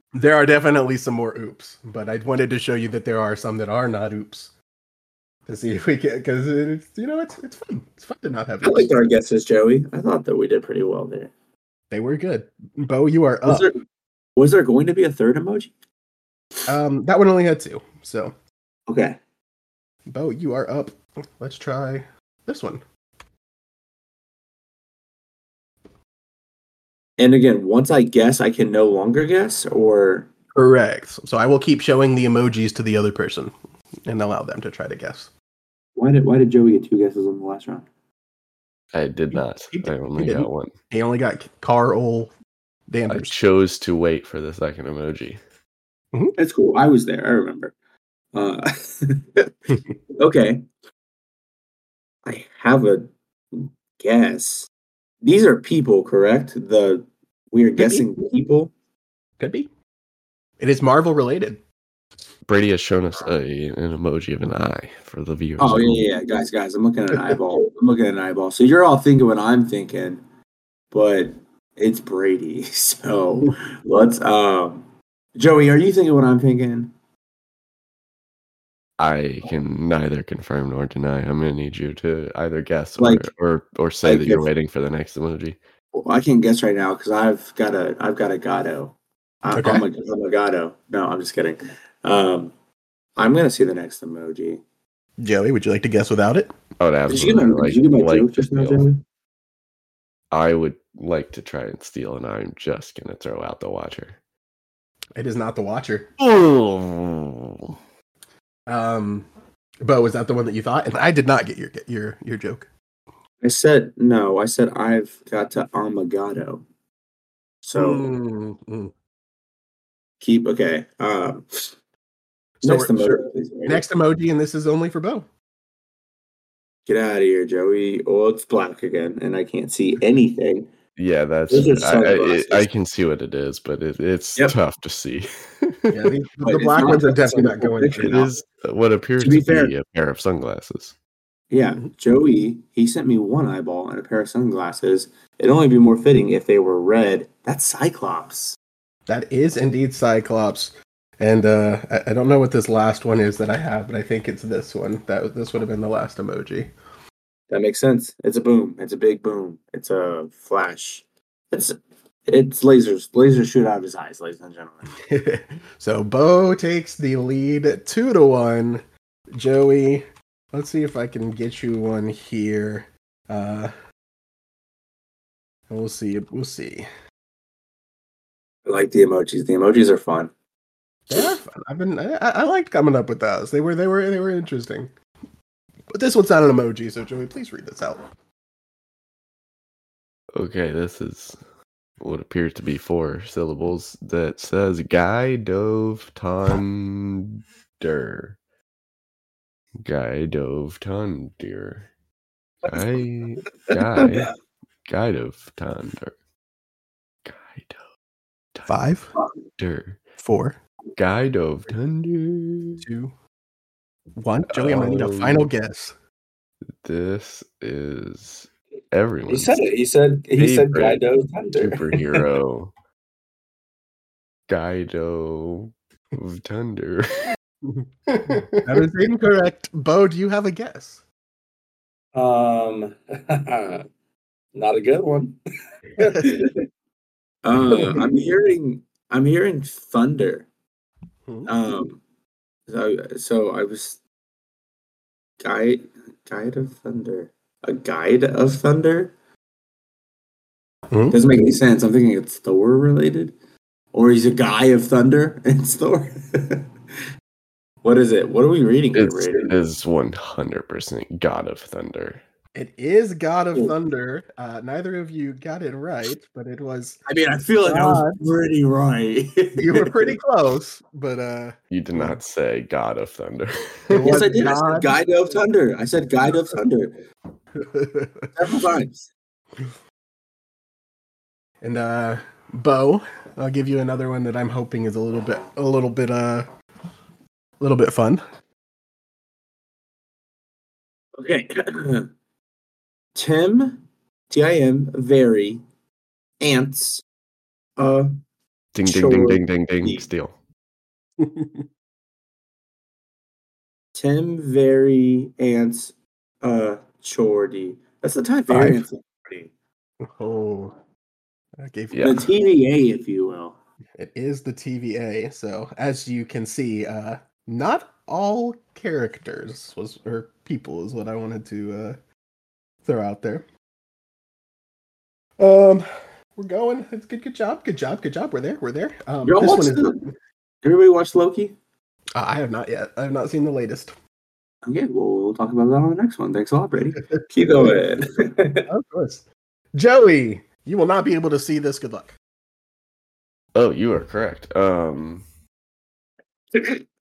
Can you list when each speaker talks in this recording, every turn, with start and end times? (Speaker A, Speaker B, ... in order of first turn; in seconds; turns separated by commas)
Speaker A: 0.2-4.5, Speaker A: 5.5-8.9, Speaker B: 8.6-11.3, Speaker A: 11.9-13.7, Speaker B: 13.5-13.8, Speaker B: 14.4-15.7, Speaker A: 16.7-18.3, Speaker B: 18.9-19.2, Speaker A: 20.1-22.8, Speaker B: 27.2-30.3, Speaker A: 30.5-33.5, Speaker A: 34.1-35.3, Speaker B: 36.0-37.9, Speaker C: 38.9-40.7, Speaker A: 39.3-42.3, Speaker A: 42.9-43.4, Speaker C: 43.1-45.4, Speaker B: 46.4-47.7, Speaker B: 48.3-49.5, Speaker B: 50.2-50.6, Speaker B: 52.2-54.7, Speaker B: 55.2-58.7, Speaker A: 57.8-58.1, Speaker A: 59.4-59.7, Speaker A: 60.6-61.6, Speaker C: 62.5-66.1, Speaker B: 65.6-70.2, Speaker B: 70.9-76.9, Speaker C: 79.0-85.6, Speaker B: 83.0-83.3, Speaker B: 84.0-84.5, Speaker B: 85.9-92.5, Speaker A: 89.5-89.8, Speaker B: 93.2-94.6, Speaker A: 95.2-96.5, Speaker C: 96.8-98.9, Speaker B: 97.1-99.0, Speaker C: 100.3-104.2, Speaker A: 105.2-106.1, Speaker C: 106.2-107.8, Speaker A: 108.7-109.3, Speaker A: 109.8-112.7, Speaker B: 113.4-116.7, Speaker B: 117.6-118.1, Speaker A: 117.7-118.9, Speaker B: 120.2-121.7, Speaker A: 122.6-125.3, Speaker B: 122.6-123.8, Speaker B: 126.9-130.7, Speaker C: 131.0-136.1, Speaker B: 131.5-132.7, Speaker A: 135.9-138.2, Speaker B: 136.4-138.3, Speaker C: 138.0-141.0, Speaker B: 139.2-139.7, Speaker B: 141.5-148.6, Speaker A: 149.1-156.7, Speaker B: 157.5-161.8, Speaker B: 162.3-164.9, Speaker A: 165.1-168.8, Speaker A: 169.3-173.7, Speaker A: 175.7-176.9, Speaker B: 178.7-180.3, Speaker A: 181.1-184.9, Speaker A: 185.9-188.1, Speaker C: 190.3-191.4, Speaker C: 192.0-198.4, Speaker C: 199.8-201.9, Speaker C: 202.7-204.3, Speaker B: 203.7-204.3, Speaker C: 204.9-206.2, Speaker C: 207.2-207.8, Speaker A: 208.7-209.1, Speaker C: 209.6-210.0, Speaker A: 210.2-210.6, Speaker C: 211.0-212.8, Speaker A: 212.8-213.1, Speaker A: 214.2-215.9, Speaker C: 214.5-215.5, Speaker C: 216.8-219.6, Speaker B: 219.3-222.2, Speaker C: 220.4-221.1, Speaker C: 221.6-222.7, Speaker C: 224.5-227.2, Speaker A: 227.6-231.0, Speaker B: 232.2-233.9, Speaker B: 234.6-235.4, Speaker B: 236.0-236.6, Speaker A: 236.0-236.3, Speaker B: 237.4-240.5, Speaker B: 241.5-242.0, Speaker B: 242.7-244.0, Speaker B: 245.4-249.1, Speaker A: 250.9-251.2, Speaker B: 251.1-253.3, Speaker B: 253.9-256.6, Speaker B: 257.8-259.5, Speaker C: 258.9-262.2, Speaker A: 262.6-267.0, Speaker B: 267.1-270.1, Speaker A: 267.6-268.2, Speaker A: 269.6-272.2, Speaker C: 271.7-274.2, Speaker A: 273.9-274.9, Speaker B: 274.0-276.9, Speaker A: 277.6-278.3, Speaker B: 278.4-279.1, Speaker A: 281.6-286.5, Speaker A: 287.6-288.2, Speaker B: 291.2-292.1, Speaker B: 293.1-295.6, Speaker B: 296.4-297.0, Speaker B: 297.8-298.1, Speaker C: 298.8-300.3, Speaker B: 298.9-300.1, Speaker A: 301.2-301.7, Speaker B: 303.9-309.5, Speaker A: 308.5-308.8, Speaker A: 310.0-310.7, Speaker A: 311.6-312.3, Speaker C: 311.9-312.2, Speaker B: 312.0-313.6, Speaker A: 314.0-322.0, Speaker A: 322.9-323.5, Speaker A: 325.4-330.1, Speaker B: 329.2-330.0, Speaker B: 330.6-331.6, Speaker A: 332.1-333.9, Speaker B: 334.7-338.6, Speaker A: 338.7-342.2, Speaker C: 343.6-345.3, Speaker B: 346.6-346.8